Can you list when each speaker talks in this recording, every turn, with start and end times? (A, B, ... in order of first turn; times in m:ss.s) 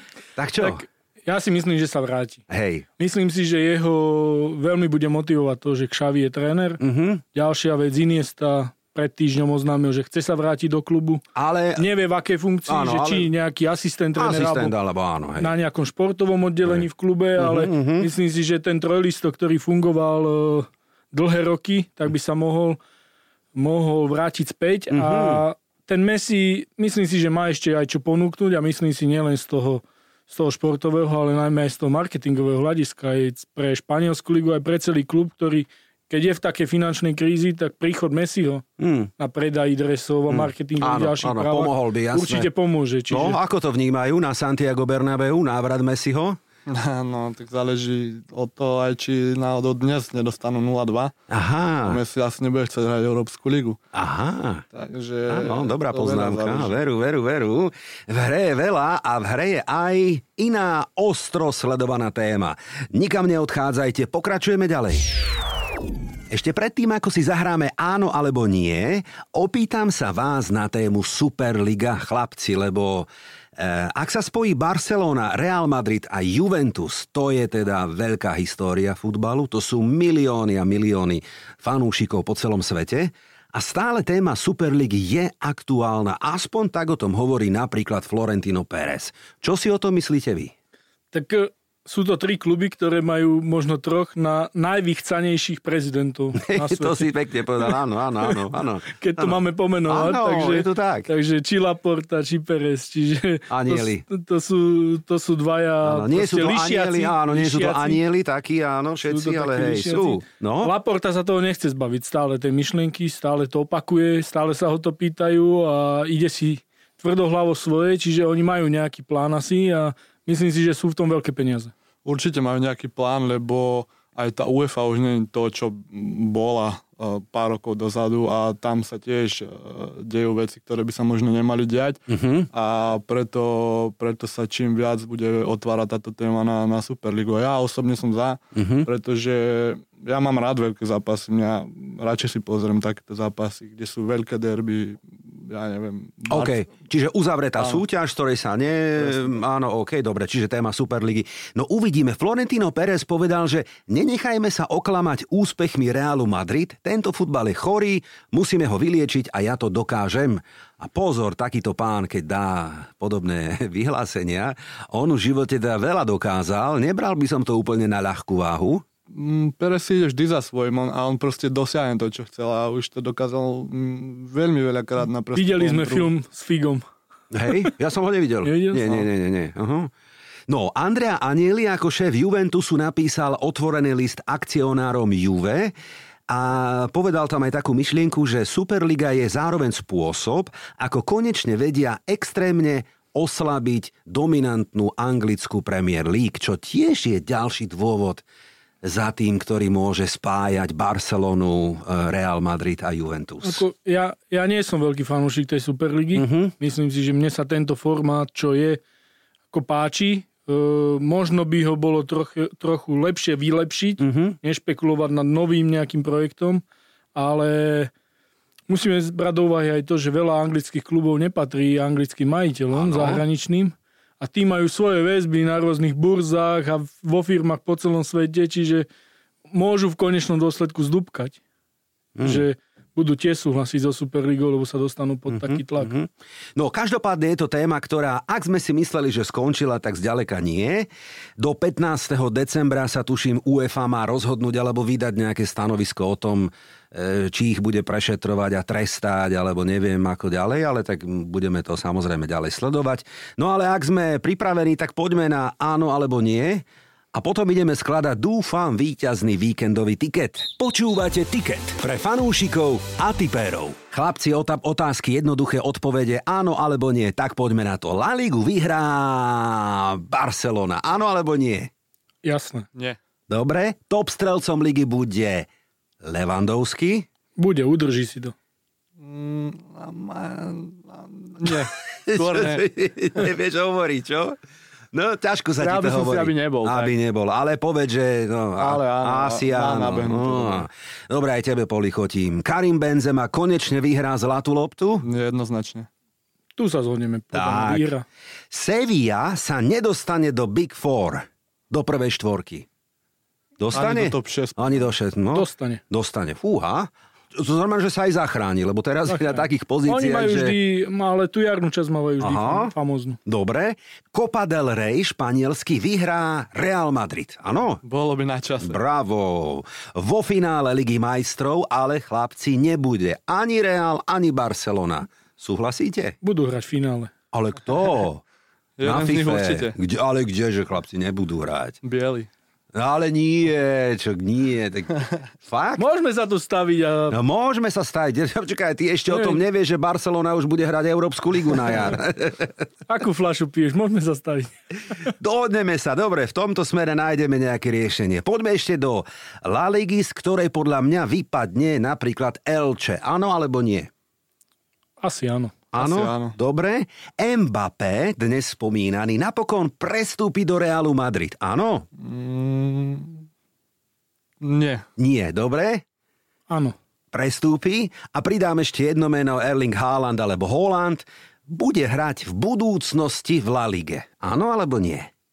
0:00.4-0:00.8 A
0:00.6-0:02.4 B
0:02.5-0:02.9 A
0:03.0-0:06.8 B
0:06.8-0:07.2 A
0:07.4-0:11.2 B
0:11.4-0:11.9 A
0:11.8-0:14.8 B
0:12.7-0:13.3 A
0:14.2-0:15.5 A
0:15.4-0:22.8 B
0:17.4-0:18.1 A
0:23.6-0:38.6 B
0:24.9-0:25.4 A
0:38.8-0:39.1 A
0:39.2-0:43.4 B
0:40.3-0:42.5 A
0:43.1-0:46.4 A
0:46.7-0:51.1 C
0:51.3-0:52.0 A
0:51.8-0:53.8 C
0:53.9-0:54.6 A
0:54.7-0:56.8 C
0:55.3-1:05.0 A
1:06.3-1:30.5 A
1:31.1-1:38.3 B
1:36.4-1:41.1 A
1:38.9-1:48.0 B
1:43.5-1:44.0 A
1:45.8-1:50.7 A
1:49.1-2:01.7 B
2:02.0-2:26.6 C
2:12.1-2:12.5 A
2:18.6-2:18.9 A
2:26.3-2:48.8 A
2:29.0-2:29.3 C
2:49.1-2:56.1 C
2:55.4-2:56.8 B
2:57.3-2:59.9 A
2:58.4-2:59.1 B
3:00.5-3:05.7 A
3:06.3-3:18.2 A
3:18.8-3:23.6 A
3:23.4-3:28.8 B
3:26.2-3:26.5 A
3:29.5-3:36.6 B
3:34.0-3:34.4 A
3:37.2-3:37.9 B
3:38.7-3:48.9 B
3:42.7-3:43.2 A
3:49.5-3:51.4 B
3:52.2-3:52.4 A
3:52.2-3:55.9 B
3:55.3-4:31.7 A
4:32.2-4:32.7 B
4:33.3-4:35.5 A
4:36.0-4:37.1 A
4:37.4-4:38.3 B
4:39.0-4:42.6 C
4:42.1-4:44.4 A
4:44.9-4:55.1 A
4:45.6-4:47.0 C
4:48.6-4:50.6 C
4:55.0-4:55.9 C
4:56.6-4:58.0 B
4:57.3-4:57.9 A
4:58.5-5:02.7 A
5:03.6-5:10.6 A
5:03.7-5:04.9 C
5:05.3-5:05.8 B
5:09.1-5:13.2 B
5:12.2-5:12.7 A
5:13.2-5:17.8 A
5:17.8-5:18.8 C
5:18.6-5:26.2 A
5:26.2-5:27.1 B
5:27.3-5:28.2 A
5:28.8-5:29.8 C
5:28.8-5:31.8 A
5:31.8-5:32.3 C
5:32.7-5:35.8 A
5:35.8-5:37.2 B
5:37.1-5:42.5 A
5:39.1-5:39.4 B
5:42.9-5:44.5 B
5:45.2-5:53.9 A
5:55.0-5:55.6 B
5:55.7-6:01.9 A
5:55.8-5:56.4 C
6:02.0-6:03.3 C
6:04.4-6:04.8 C
6:05.0-6:05.8 A
6:06.5-6:06.8 B
6:07.1-6:15.1 A